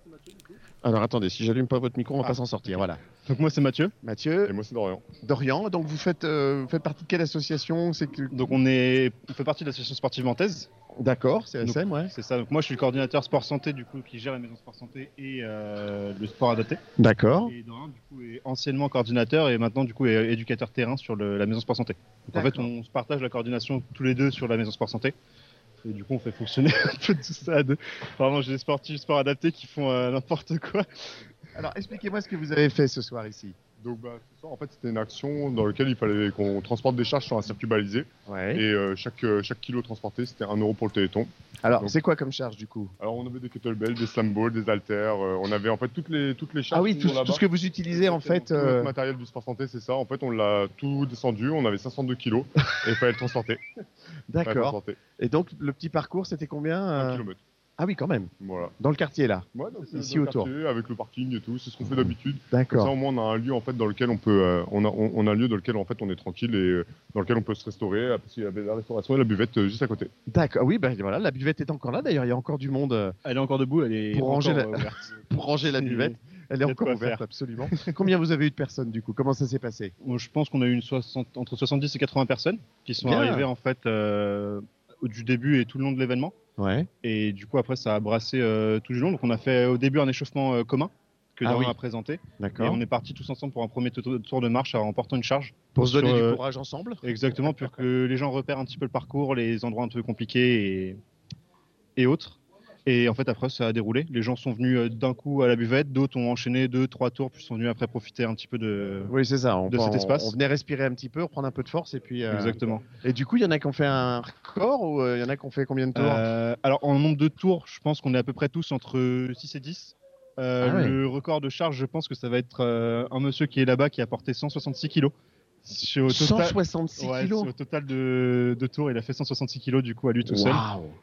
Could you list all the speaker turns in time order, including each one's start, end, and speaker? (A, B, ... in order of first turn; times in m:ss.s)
0:00.8-0:03.0 A
0:03.2-0:03.9 B
0:04.0-0:04.5 A
0:04.5-0:05.1 C
0:05.2-0:08.5 A
0:08.3-0:10.7 B
0:11.0-0:12.1 A
0:11.6-0:16.8 B
0:17.0-0:17.5 A
0:17.4-0:25.2 B
0:22.3-0:22.7 A
0:25.8-0:30.9 B
0:31.6-0:33.6 A
0:33.8-0:42.0 C
0:38.3-0:38.6 A
0:41.6-0:42.9 A
0:43.0-0:53.6 C
0:46.7-0:48.9 A
0:54.3-0:57.3 A
0:54.4-0:55.0 C
0:57.0-0:57.4 C
0:57.8-1:00.5 A
0:58.4-0:58.7 C
0:59.5-1:10.1 C
1:02.5-1:02.9 A
1:10.3-1:13.2 A
1:13.2-1:18.0 B
1:14.1-1:19.9 A
1:20.0-1:26.3 B
1:23.0-1:23.5 A
1:26.6-1:26.9 A
1:27.0-1:36.4 B
1:31.4-1:31.8 A
1:32.4-1:32.8 A
1:35.8-1:37.0 A
1:37.0-1:41.0 B
1:42.0-1:49.1 B
1:49.1-1:56.3 A
1:49.7-1:50.3 B
1:52.3-1:52.8 B
1:55.9-2:05.1 B
2:00.6-2:01.0 A
2:05.6-2:10.6 B
2:06.1-2:07.5 A
2:10.3-2:10.9 A